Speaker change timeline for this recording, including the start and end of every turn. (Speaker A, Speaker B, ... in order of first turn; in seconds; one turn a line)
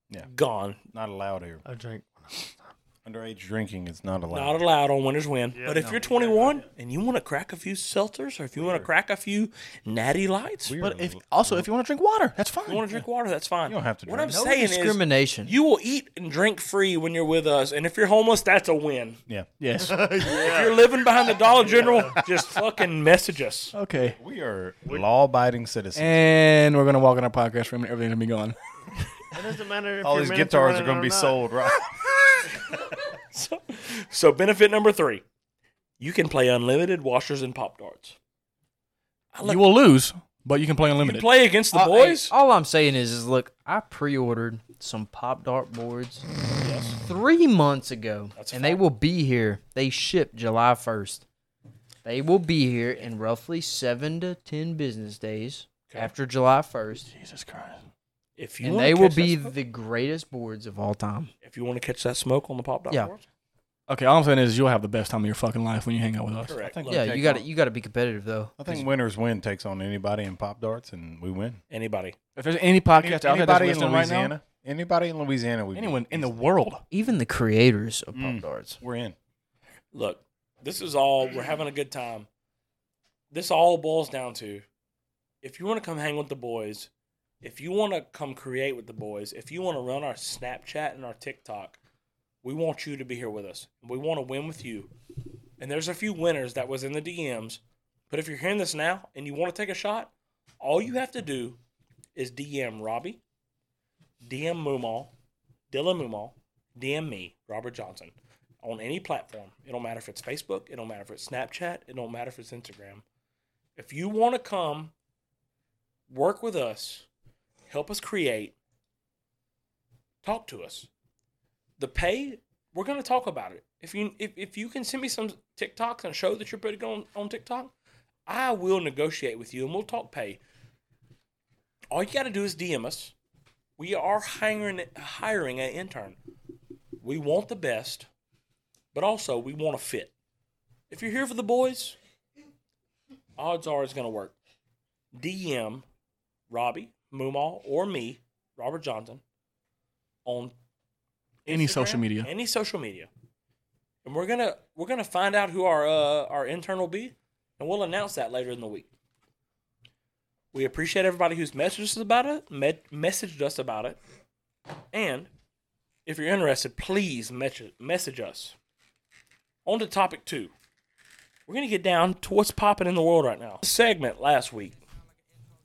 Speaker A: 0.3-0.8
Speaker B: 0.9-1.6
Speaker C: 1.6-2.7
Speaker B: 3.0-4.6
Speaker A: 4.3-10.7
Speaker C: 5.5-6.6
Speaker B: 8.5-8.9
Speaker B: 10.7-11.7
Speaker D: 10.8-12.9
Speaker A: 12.7-19.2
Speaker B: 13.7-14.4
Speaker E: 14.3-15.5
Speaker D: 19.6-20.1
Speaker C: 19.8-20.8
Speaker A: 20.2-23.7
Speaker C: 21.5-22.2
Speaker D: 23.7-24.2
Speaker B: 24.1-26.4
Speaker D: 25.9-28.6
Speaker C: 29.3-31.4
Speaker B: 30.0-32.5
Speaker A: 33.3-35.2
Speaker A: 36.0-38.1
Speaker A: 39.3-39.7
Speaker D: 39.4-41.3
Speaker A: 41.0-42.3
Speaker E: 41.7-46.2
Speaker A: 46.6-47.0
Speaker E: 47.0-51.2
Speaker A: 48.3-48.8
Speaker E: 52.0-57.1
Speaker D: 57.1-57.8
Speaker A: 58.4-59.5
Speaker E: 58.6-61.3
Speaker A: 61.4-63.2
Speaker D: 63.9-66.5
Speaker A: 66.5-67.0
Speaker B: 66.6-67.5
Speaker E: 66.8-68.6
Speaker B: 68.6-71.6
Speaker A: 71.7-72.2
Speaker D: 72.3-74.3
Speaker B: 72.9-76.3
Speaker D: 75.7-76.8
Speaker E: 76.9-78.8
Speaker B: 78.1-79.2
Speaker A: 79.9-82.3
Speaker A: 83.3-84.6
Speaker A: 85.4-86.9
Speaker A: 87.4-91.8
Speaker A: 92.4-94.9
Speaker A: 95.6-101.6
Speaker A: 102.1-103.2
Speaker A: 104.2-105.1
Speaker A: 105.7-113.0
Speaker A: 113.8-114.9
Speaker A: 116.1-117.0
Speaker A: 117.7-118.5
Speaker A: 120.2-120.9
Speaker A: 121.8-127.7
Speaker A: 128.3-130.4
Speaker A: 131.9-133.1
Speaker A: 133.8-136.2
Speaker A: 137.0-138.1
Speaker A: 138.9-140.1
Speaker A: 140.9-141.9
Speaker A: 143.4-144.3
Speaker A: 145.1-145.8
Speaker A: 146.5-149.2
Speaker A: 150.2-150.5
Speaker A: 151.4-153.1
Speaker D: 151.5-152.3
Speaker A: 154.0-158.9
Speaker A: 160.5-164.0
Speaker A: 164.9-165.3
Speaker A: 166.1-168.5
Speaker A: 169.6-170.5
Speaker A: 171.5-174.7